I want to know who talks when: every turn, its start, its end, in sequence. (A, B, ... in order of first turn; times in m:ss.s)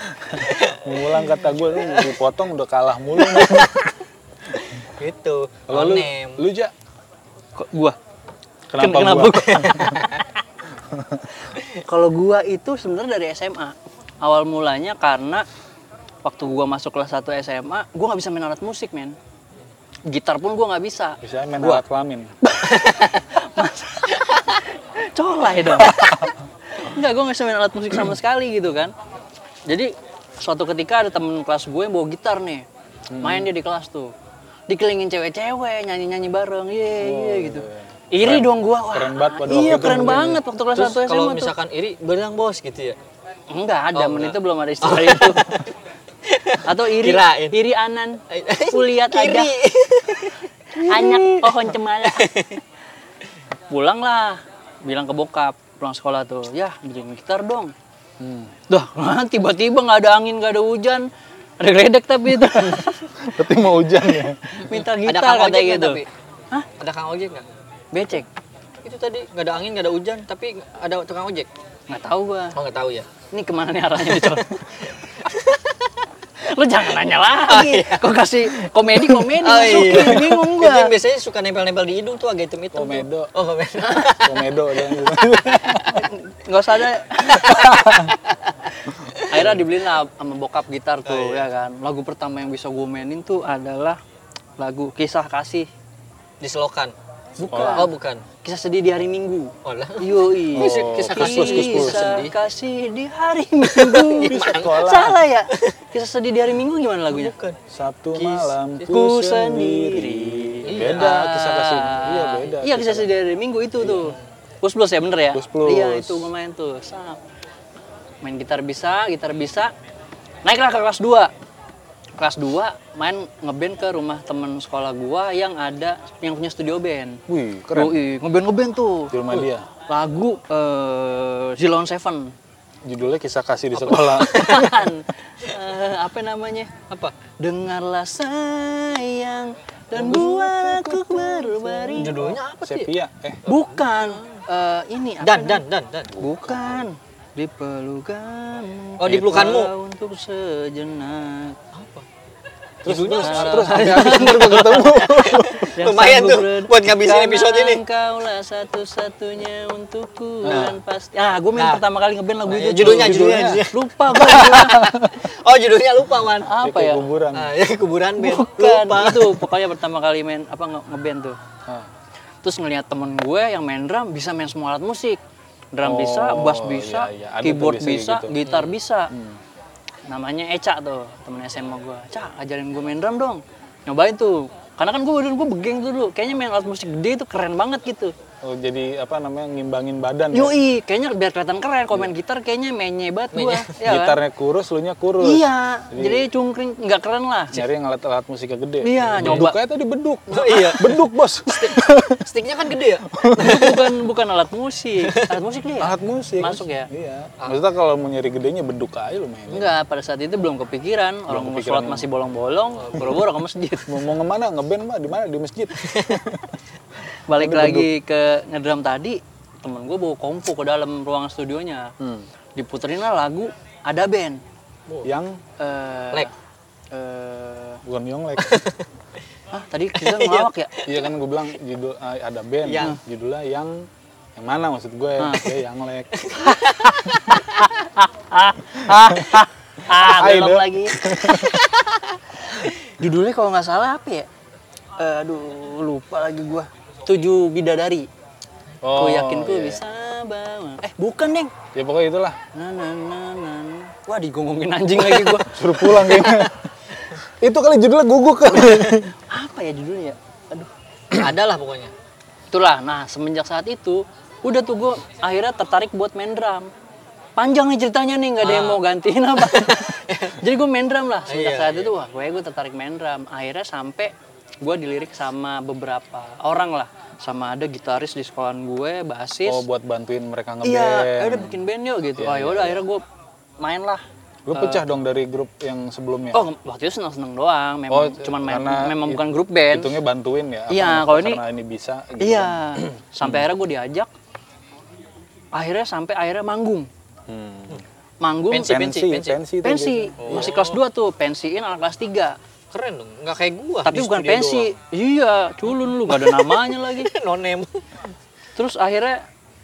0:00.3-0:03.9 A
0:00.4-0:01.3 B
0:04.8-0:06.4 B
0:05.7-0:06.7 A
0:07.6-0:08.0 C
0:08.7-0:10.0 A
0:08.8-0:10.0 C
0:09.5-0:10.2 B
0:10.9-0:11.3 A
0:11.7-0:15.4 C
0:16.2-0:19.2 C
0:20.1-0:21.8 C
0:21.2-0:22.3 A
0:22.4-0:28.9 C
0:22.8-0:23.2 B
0:25.6-0:26.3 A
0:29.6-0:32.6 C
0:33.1-0:33.5 A
0:33.2-0:34.1 C
0:34.7-0:41.5 C
0:37.0-0:40.4 A
0:40.7-0:43.0 B
0:43.5-0:45.6 C
0:43.9-0:45.7 B
0:46.2-0:47.6 B
0:46.6-0:49.5 C
0:48.3-0:52.6 B
0:50.8-0:52.3 C
0:53.7-0:57.7 C
0:58.2-0:58.5 A
0:58.7-1:01.1 C
1:01.6-1:03.0 C
1:02.5-1:04.8 A
1:04.6-1:06.7 C
1:04.9-1:06.1 B
1:06.8-1:07.4 B
1:07.9-1:08.3 C
1:08.8-1:11.5 B
1:11.9-1:12.6 C
1:12.5-1:13.1 B
1:13.3-1:14.6 C
1:14.0-1:15.9 B
1:16.4-1:20.9 C
1:17.4-1:18.5 B
1:19.2-1:25.9 B
1:19.8-1:20.2 A
1:22.7-1:23.3 A
1:24.1-1:26.0 A
1:25.8-1:28.1 C
1:27.4-1:27.8 B
1:27.6-1:28.1 A
1:29.2-1:34.0 C
1:31.0-1:31.5 B
1:34.6-1:35.7 C
1:36.4-1:38.2 B
1:37.4-1:37.9 C
1:37.5-1:37.9 A
1:38.4-1:47.3 C
1:39.6-1:42.3 B
1:40.5-1:42.1 A
1:43.6-1:44.8 B
1:44.2-1:45.2 A
1:47.1-1:47.6 B
1:47.7-1:53.1 A
1:48.1-1:48.9 B
1:48.9-1:57.2 C
1:50.6-1:51.2 B
1:53.8-1:54.1 A
1:55.3-1:56.3 A
1:58.2-1:59.7 C
2:00.4-2:01.3 C
2:02.2-2:07.2 C
2:07.3-2:08.0 A
2:07.7-2:09.1 C
2:09.1-2:09.6 A
2:09.9-2:12.3 C
2:12.8-2:14.6 A
2:13.9-2:16.7 C
2:13.9-2:14.8 B
2:16.9-2:17.1 B
2:17.4-2:22.4 C
2:19.9-2:22.9 B
2:22.6-2:23.4 A
2:23.4-2:24.4 B
2:23.4-2:25.6 C
2:25.2-2:26.1 B
2:26.1-2:26.8 A
2:26.2-2:31.6 C
2:29.0-2:29.7 B
2:29.0-2:29.6 A
2:31.7-2:32.0 B
2:32.8-2:34.4 B
2:32.8-2:35.7 A
2:33.2-2:45.0 C
2:35.1-2:37.8 B
2:40.4-2:40.8 A
2:41.6-2:41.8 B
2:42.4-2:46.5 B
2:42.7-2:43.6 A
2:44.5-2:45.1 A
2:46.4-2:47.1 C
2:46.6-2:47.5 A
2:47.3-2:49.5 B
2:48.2-2:51.4 C
2:52.4-2:55.2 C
2:55.7-2:59.1 C
2:55.8-2:58.4 A
2:58.4-2:58.7 B
2:59.1-2:59.4 A
3:00.1-3:08.1 C
3:08.4-3:10.6 A
3:10.3-3:14.2 C
3:13.3-3:13.8 B
3:13.8-3:16.3 A
3:15.2-3:17.6 C
3:17.5-3:22.2 A
3:18.8-3:19.6 C
3:19.1-3:19.5 B
3:20.3-3:20.9 B
3:21.5-3:23.8 B
3:23.1-3:23.8 A
3:23.4-3:26.9 C
3:25.1-3:25.3 B
3:25.8-3:29.7 A
3:29.5-3:33.9 C
3:31.3-3:32.1 A
3:33.9-3:36.5 A
3:35.8-3:36.2 B
3:37.3-3:41.9 C
3:37.4-3:37.9 A
3:42.0-3:42.2 A
3:42.6-3:44.4 C
3:45.0-3:45.4 A
3:45.6-3:46.3 C
3:46.9-3:47.8 C
3:47.8-3:48.6 A
3:48.4-3:48.9 B
3:49.5-3:50.8 C
3:50.0-3:50.5 B
3:50.8-3:56.2 A
3:52.6-3:53.0 B
3:55.2-3:55.6 C
3:56.2-3:57.4 B
3:56.4-4:01.6 C
3:58.9-4:01.6 A
4:02.5-4:04.3 C
4:05.0-4:08.1 C
4:08.8-4:09.8 A
4:08.9-4:11.5 C
4:11.7-4:12.4 A
4:12.5-4:15.6 C
4:15.3-4:16.5 B
4:15.4-4:16.6 A
4:17.4-4:19.1 A
4:19.3-4:20.7 C
4:21.1-4:21.9 B
4:22.5-4:26.7 C
4:27.4-4:39.6 C
4:28.4-4:28.8 B
4:29.4-4:30.4 B
4:31.3-4:31.9 B
4:39.4-4:41.6 A
4:40.6-4:43.0 C
4:42.1-4:42.8 A
4:43.6-4:44.8 C
4:44.5-4:46.4 A
4:46.3-4:50.0 C
4:47.9-4:53.5 A
4:50.7-4:51.4 C
4:52.2-4:54.1 C
4:55.5-4:56.9 C
4:57.3-4:57.8 A
4:58.2-5:02.4 C
4:58.5-4:59.4 B
4:58.6-5:00.5 A
5:00.2-5:00.8 B
5:02.7-5:04.7 B
5:03.8-5:07.1 C
5:05.9-5:07.8 B
5:08.6-5:09.2 C